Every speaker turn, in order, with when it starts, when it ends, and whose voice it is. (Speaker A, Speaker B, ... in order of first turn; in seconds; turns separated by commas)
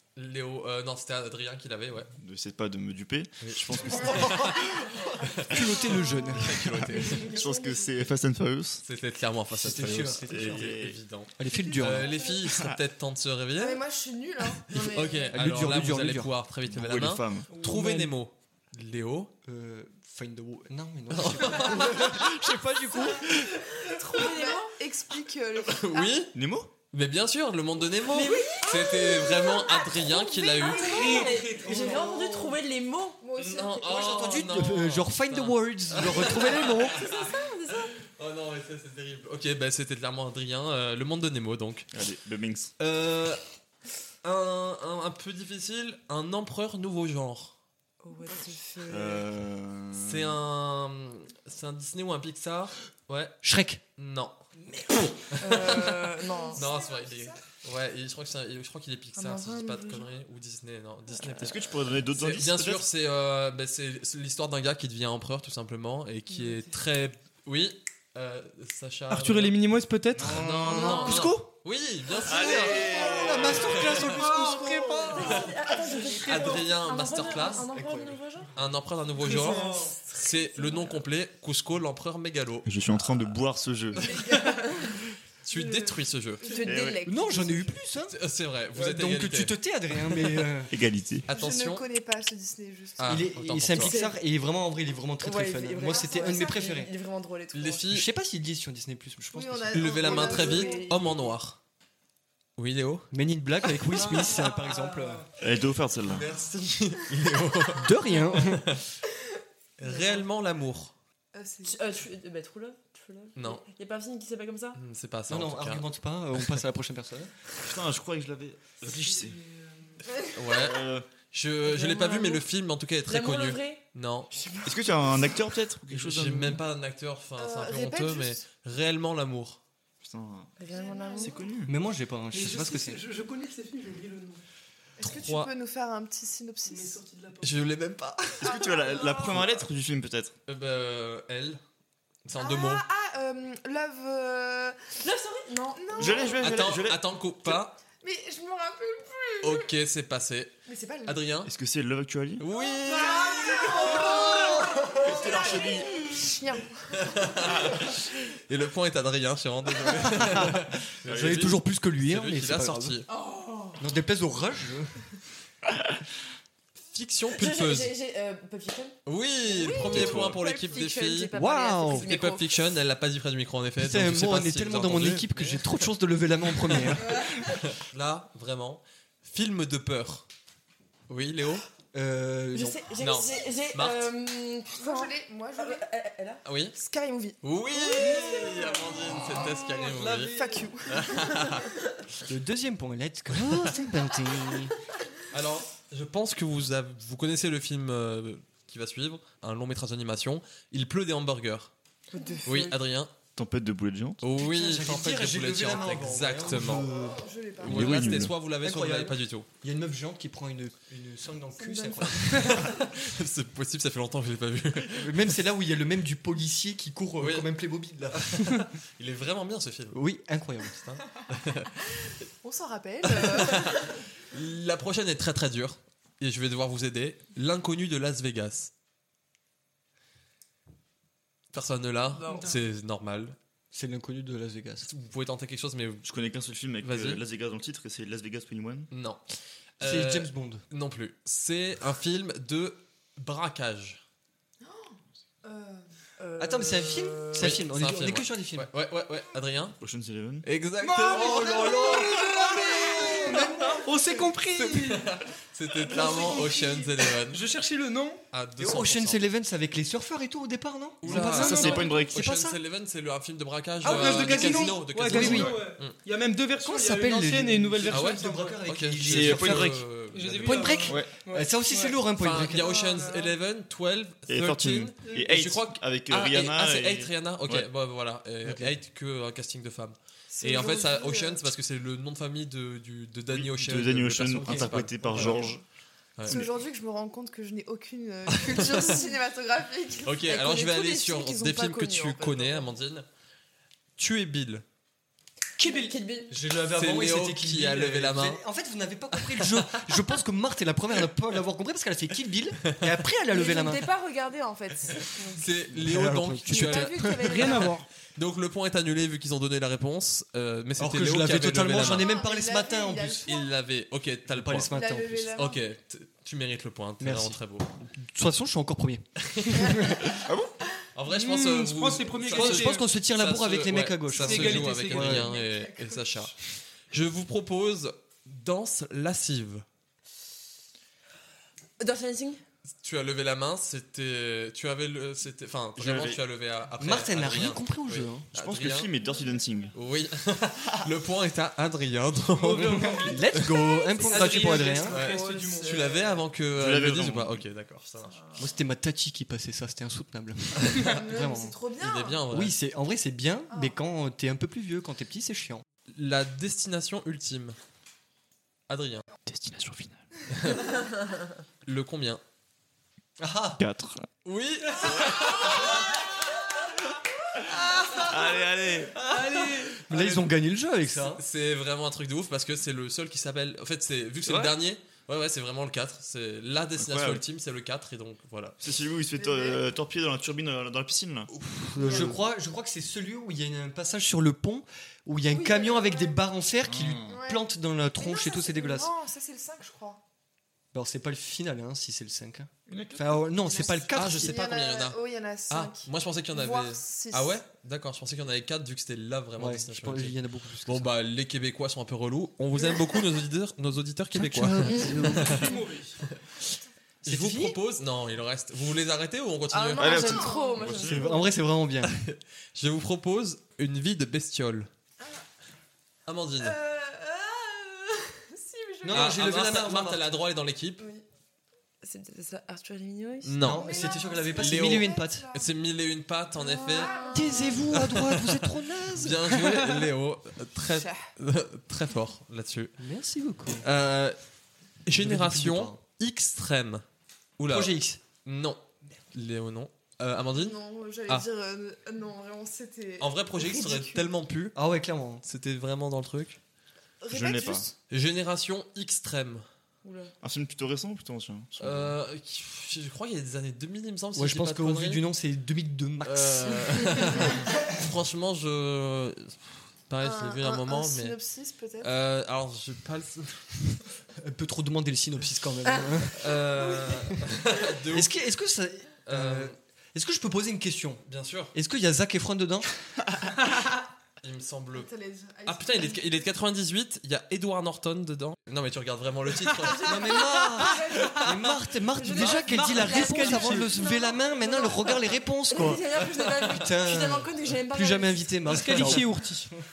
Speaker A: 0.1-2.1, Speaker B: 2.2-4.6, Speaker A: 3.4-4.5, Speaker C: 4.1-6.6, Speaker D: 5.6-7.9, Speaker A: 6.4-7.2, Speaker B: 6.7-8.8, Speaker E: 6.9-8.1, Speaker A: 8.8-13.8, Speaker C: 9.5-10.7, Speaker B: 10.3-11.0, Speaker C: 11.3-12.1, Speaker D: 11.5-12.3, Speaker D: 13.6-15.3, Speaker A: 14.7-19.3, Speaker C: 15.3-16.3, Speaker B: 16.7-17.5, Speaker F: 17.5-18.1, Speaker C: 19.4-23.6, Speaker A: 21.1-22.4, Speaker D: 21.4-22.2, Speaker D: 23.8-26.3, Speaker E: 24.0-24.7, Speaker A: 25.6-26.3, Speaker B: 26.3-26.7, Speaker A: 26.9-31.1, Speaker E: 28.1-33.2, Speaker D: 28.2-28.6, Speaker D: 30.6-32.2, Speaker F: 30.6-32.2, Speaker C: 31.7-32.1, Speaker D: 33.2-34.1, Speaker A: 33.4-37.4, Speaker C: 33.8-37.0, Speaker E: 36.6-37.9, Speaker A: 38.0-41.9, Speaker B: 41.9-42.7, Speaker A: 42.8-43.5, Speaker A: 44.2-47.6, Speaker E: 48.0-49.2, Speaker B: 48.9-50.4, Speaker A: 50.0-53.4, Speaker C: 53.4-53.8, Speaker A: 54.0-54.5, Speaker A: 55.1-55.8, Speaker E: 55.4-56.7, Speaker D: 55.6-57.4, Speaker A: 56.5-69.5, Speaker E: 59.2-60.0, Speaker B: 61.4-62.8, Speaker D: 66.3-66.6, Speaker F: 69.1-70.4, Speaker B: 70.2-71.0, Speaker A: 70.2-74.3, Speaker E: 70.7-71.2, Speaker C: 70.7-71.5, Speaker B: 72.2-73.8, Speaker E: 72.3-73.4, Speaker D: 72.4-73.2, Speaker C: 72.9-75.4, Speaker F: 74.0-76.7, Speaker E: 74.5-78.5, Speaker A: 75.3-75.5, Speaker A: 76.1-77.7, Speaker C: 77.7-78.2, Speaker A: 78.5-83.2, Speaker F: 79.2-80.1, Speaker E: 79.3-79.9, Speaker B: 82.6-84.2, Speaker A: 84.0-84.6, Speaker D: 84.1-84.9, Speaker E: 84.3-85.0, Speaker A: 85.4-86.4, Speaker E: 85.5-87.8, Speaker D: 86.4-86.9, Speaker B: 86.6-87.0, Speaker C: 87.0-88.2, Speaker A: 88.1-90.5, Speaker C: 88.7-90.7, Speaker B: 90.7-91.3, Speaker A: 91.3-91.9, Speaker D: 91.3-93.3, Speaker A: 93.0-94.0, Speaker C: 93.0-96.9, Speaker E: 93.7-94.1, Speaker E: 95.2-97.8, Speaker D: 95.8-96.7, Speaker A: 97.5-98.0, Speaker C: 97.9-100.3, Speaker D: 99.3-101.1, Speaker A: 99.7-101.6, Speaker E: 99.9-101.3, Speaker A: 102.6-103.1, Speaker C: 103.1-105.2, Speaker B: 105.4-106.3, Speaker A: 106.0-108.8, Speaker C: 107.8-108.8, Speaker A: 109.8-110.9, Speaker D: 109.9-110.2, Speaker D: 111.3-111.8, Speaker E: 111.6-114.8, Speaker A: 113.3-113.6, Speaker A: 114.8-116.6, Speaker C: 115.3-117.3, Speaker B: 117.6-119.4, Speaker F: 118.8-120.0, Speaker A: 120.3-124.3, Speaker B: 120.5-121.1, Speaker E: 121.6-122.4, Speaker E: 123.1-123.8, Speaker E: 124.3-124.7, Speaker B: 124.6-126.6, Speaker A: 125.9-129.6, Speaker D: 127.4-128.4, Speaker B: 130.0-130.5, Speaker E: 130.6-131.4, Speaker D: 130.7-131.5, Speaker B: 131.2-131.7, Speaker C: 131.7-133.0, Speaker F: 132.3-134.4, Speaker D: 135.0-137.0, Speaker A: 135.0-135.5, Speaker F: 136.6-137.6, Speaker A: 137.4-138.6, Speaker B: 138.4-140.3, Speaker D: 138.4-139.3, Speaker A: 140.5-141.6, Speaker A: 142.2-142.8, Speaker D: 142.4-146.4, Speaker E: 145.0-146.3, Speaker B: 145.9-147.0, Speaker A: 146.4-147.8, Speaker D: 148.0-149.7, Speaker A: 149.4-150.5, Speaker D: 150.7-151.2, Speaker A: 151.0-151.5, Speaker B: 151.4-152.4, Speaker A: 152.4-154.2, Speaker D: 152.6-157.5, Speaker E: 152.6-156.4, Speaker C: 154.1-154.8, Speaker B: 154.9-155.9, Speaker A: 157.0-163.1, Speaker C: 160.2-163.0, Speaker B: 161.1-161.5, Speaker E: 163.1-163.8, Speaker C: 163.8-165.0, Speaker A: 166.9-167.9, Speaker E: 167.3-172.4, Speaker A: 169.1-171.3, Speaker B: 169.8-170.4, Speaker C: 171.3-172.1, Speaker A: 171.8-175.9, Speaker C: 173.8-177.3, Speaker A: 176.6-180.3, Speaker A: 181.1-181.6, Speaker C: 181.9-182.9, Speaker E: 182.5-186.4, Speaker A: 183.0-184.1, Speaker D: 184.8-185.8, Speaker A: 186.4-186.8, Speaker D: 186.8-187.4, Speaker A: 187.4-190.3, Speaker E: 188.0-188.6, Speaker F: 188.0-188.7, Speaker D: 188.0-188.7, Speaker F: 189.8-190.3, Speaker D: 190.3-191.5, Speaker A: 190.9-191.7, Speaker C: 192.2-194.7, Speaker A: 193.3-193.8, Speaker A: 195.3-201.7, Speaker E: 202.1-202.7, Speaker D: 202.2-202.4, Speaker A: 202.4-203.1, Speaker B: 203.3-204.2, Speaker A: 204.2-206.9, Speaker C: 204.4-207.2, Speaker D: 206.5-208.2, Speaker A: 207.6-209.5, Speaker B: 207.6-208.3, Speaker C: 207.8-212.8, Speaker D: 211.6-212.8, Speaker A: 212.3-215.3, Speaker C: 214.9-218.5, Speaker A: 217.2-217.5, Speaker A: 218.1-220.0, Speaker C: 219.9-220.9, Speaker A: 220.7-222.1, Speaker D: 222.4-224.0, Speaker A: 223.0-228.7, Speaker A: 231.5-233.3, Speaker E: 232.1-232.5, Speaker F: 232.2-232.6, Speaker C: 233.7-234.9, Speaker A: 234.9-236.1, Speaker B: 236.0-238.9, Speaker A: 236.8-237.2, Speaker A: 238.9-244.0, Speaker C: 239.8-240.6, Speaker D: 244.6-245.9, Speaker E: 246.2-247.6, Speaker C: 246.4-248.7, Speaker A: 247.3-249.8, Speaker B: 249.8-250.4, Speaker A: 250.4-251.9, Speaker F: 250.8-255.2, Speaker C: 251.1-253.8, Speaker A: 254.6-257.4, Speaker F: 255.8-258.2, Speaker A: 258.3-259.2, Speaker C: 258.6-261.6, Speaker A: 261.0-265.9, Speaker F: 261.1-262.0, Speaker B: 261.2-262.5, Speaker F: 263.8-268.6, Speaker C: 263.8-265.6, Speaker B: 265.1-265.6, Speaker C: 266.6-269.8, Speaker A: 267.9-270.9, Speaker B: 269.0-269.8, Speaker F: 270.1-272.0, Speaker C: 270.4-272.8, Speaker B: 270.9-271.1, Speaker A: 272.2-285.4, Speaker F: 272.6-273.3, Speaker B: 274.3-277.7, Speaker C: 278.4-278.7, Speaker D: 280.4-281.5, Speaker B: 283.3-285.6, Speaker C: 284.4-285.3, Speaker D: 285.1-285.5, Speaker A: 286.2-286.4, Speaker D: 286.3-290.2, Speaker A: 288.4-289.1, Speaker A: 290.0-293.1, Speaker E: 290.2-292.7, Speaker A: 294.0-294.6, Speaker F: 295.6-296.0, Speaker E: 295.6-296.3, Speaker C: 296.3-303.8, Speaker A: 296.7-298.4, Speaker A: 299.3-299.7, Speaker E: 303.3-305.4, Speaker A: 305.4-312.1, Speaker C: 305.7-307.4, Speaker E: 306.5-307.7, Speaker F: 307.2-307.9, Speaker C: 310.8-313.3, Speaker D: 311.8-313.5, Speaker A: 313.3-314.7, Speaker C: 314.2-315.4, Speaker D: 314.7-315.6, Speaker A: 315.3-317.7, Speaker C: 317.0-320.1, Speaker A: 319.3-319.8, Speaker D: 319.6-320.1, Speaker B: 320.2-320.5, Speaker A: 320.9-329.6, Speaker F: 321.1-322.8, Speaker C: 322.3-325.3, Speaker F: 324.1-325.3, Speaker D: 325.2-326.0, Speaker E: 331.8-332.4, Speaker A: 332.8-338.9, Speaker B: 335.8-336.2, Speaker C: 336.8-338.3, Speaker B: 338.3-339.8, Speaker A: 339.7-343.5, Speaker F: 342.3-346.0, Speaker C: 342.5-345.0, Speaker E: 344.1-346.2, Speaker A: 344.9-348.2, Speaker B: 346.5-347.4, Speaker C: 348.4-351.6, Speaker D: 350.8-352.2, Speaker A: 351.8-352.6, Speaker C: 352.3-355.6, Speaker A: 355.9-357.6, Speaker A: 358.7-359.1, Speaker B: 359.3-360.0, Speaker A: 360.3-360.8, Speaker A: 361.6-362.2, Speaker C: 363.2-363.6, Speaker B: 363.6-364.0, Speaker A: 364.2-366.0, Speaker B: 368.0-369.0, Speaker F: 369.0-369.8, Speaker A: 369.1-370.3, Speaker C: 369.8-371.2, Speaker A: 370.8-378.6, Speaker C: 374.2-374.5, Speaker B: 376.8-377.2, Speaker B: 378.6-381.3, Speaker D: 379.2-379.6, Speaker C: 381.4-388.9, Speaker D: 381.8-382.2, Speaker D: 385.3-386.2, Speaker B: 386.7-387.2, Speaker D: 387.1-387.4, Speaker D: 387.9-390.0, Speaker C: 390.7-394.4, Speaker B: 392.7-393.2, Speaker D: 393.4-397.3, Speaker A: 393.9-405.5, Speaker C: 399.4-400.9, Speaker C: 404.1-405.6, Speaker E: 404.6-405.0, Speaker F: 404.9-406.0, Speaker A: 406.0-410.1, Speaker C: 407.0-407.6, Speaker E: 409.5-411.3, Speaker B: 409.8-411.1, Speaker D: 409.8-411.0, Speaker C: 410.6-412.0, Speaker A: 411.8-414.7, Speaker A: 416.1-416.6, Speaker D: 416.4-419.1, Speaker C: 418.8-420.0, Speaker A: 418.9-420.8, Speaker E: 421.8-423.9, Speaker A: 423.2-423.8, Speaker C: 423.4-425.3, Speaker D: 423.5-425.4, Speaker A: 424.4-427.0, Speaker E: 426.4-427.6, Speaker D: 426.6-427.6, Speaker C: 427.1-429.4, Speaker A: 427.7-432.8, Speaker C: 432.8-433.6, Speaker A: 433.6-434.2, Speaker A: 434.9-436.8, Speaker C: 434.9-435.8, Speaker A: 437.4-441.3, Speaker C: 437.5-438.0, Speaker D: 440.4-444.1, Speaker A: 443.0-444.6, Speaker C: 444.5-445.2, Speaker A: 445.2-446.4, Speaker D: 447.0-447.7, Speaker B: 447.1-447.7, Speaker A: 447.9-449.5, Speaker B: 450.2-451.9, Speaker A: 451.6-455.0, Speaker C: 454.1-457.2, Speaker A: 456.0-461.2, Speaker D: 460.0-461.9, Speaker A: 461.8-463.6, Speaker C: 464.1-472.7, Speaker A: 466.1-468.1, Speaker A: 469.1-469.6, Speaker A: 471.1-471.5, Speaker A: 474.2-474.9, Speaker D: 474.7-476.3, Speaker A: 475.4-480.2, Speaker D: 479.7-480.1, Speaker E: 479.7-481.3, Speaker C: 479.8-489.6, Speaker E: 481.9-483.8, Speaker F: 482.1-483.8, Speaker D: 482.6-485.0, Speaker E: 484.6-484.9, Speaker E: 485.5-488.6, Speaker F: 488.5-489.5